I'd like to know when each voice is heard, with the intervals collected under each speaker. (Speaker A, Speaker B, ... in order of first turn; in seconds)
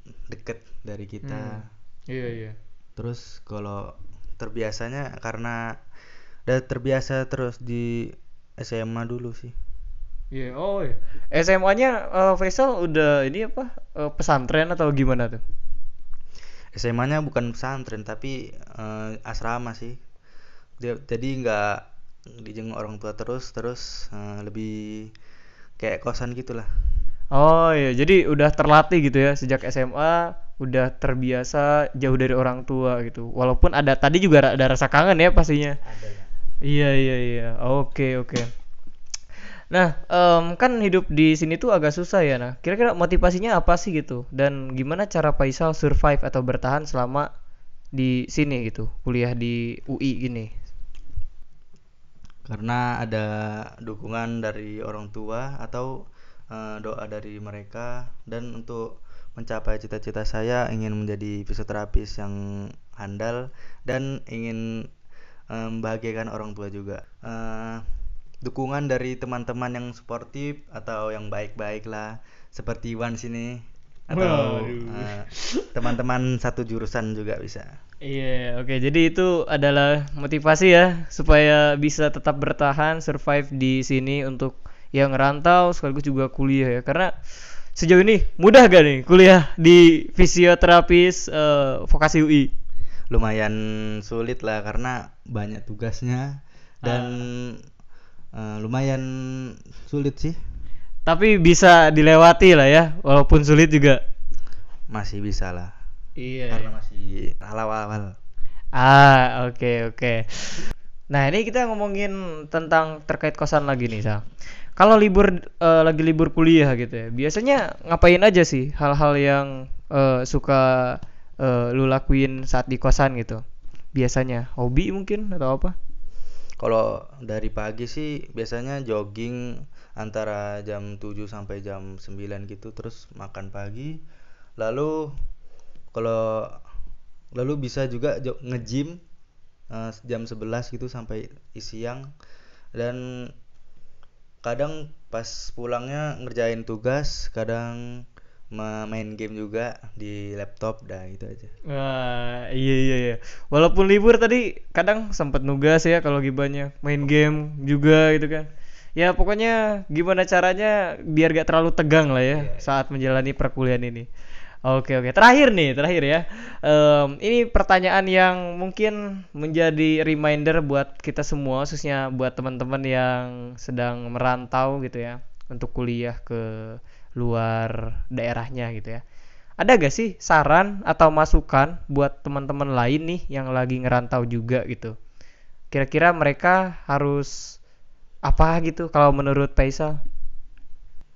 Speaker A: 0.3-1.6, 3.0-5.8, 6.5-9.5, 16.7-20.0, 20.8-21.8, 22.4-25.1, 25.8-26.7, 35.8-36.3, 52.5-56.0, 56.5-62.4, 62.9-64.9, 65.5-67.8, 68.4-77.7, 93.1-97.6, 98.3-100.4, 104.9-105.7, 106.5-108.1, 126.6-134.0, 134.6-135.1, 135.9-136.6, 137.4-139.0, 139.7-142.1, 142.8-143.0, 144.4-147.8, 148.5-151.5, 162.3-162.7
Speaker B: 1.2-2.5, 10.3-15.4, 27.3-35.8, 36.6-38.5, 39.7-47.3, 47.9-50.5, 74.1-75.7, 78.0-87.1, 87.8-92.5, 96.8-97.2, 101.1-104.0, 106.2-106.7, 108.8-110.6, 111.1-114.2, 114.8-123.4, 123.9-125.7, 151.7-164.1, 164.7-179.0, 179.6-184.9, 185.7-187.6, 188.2-190.0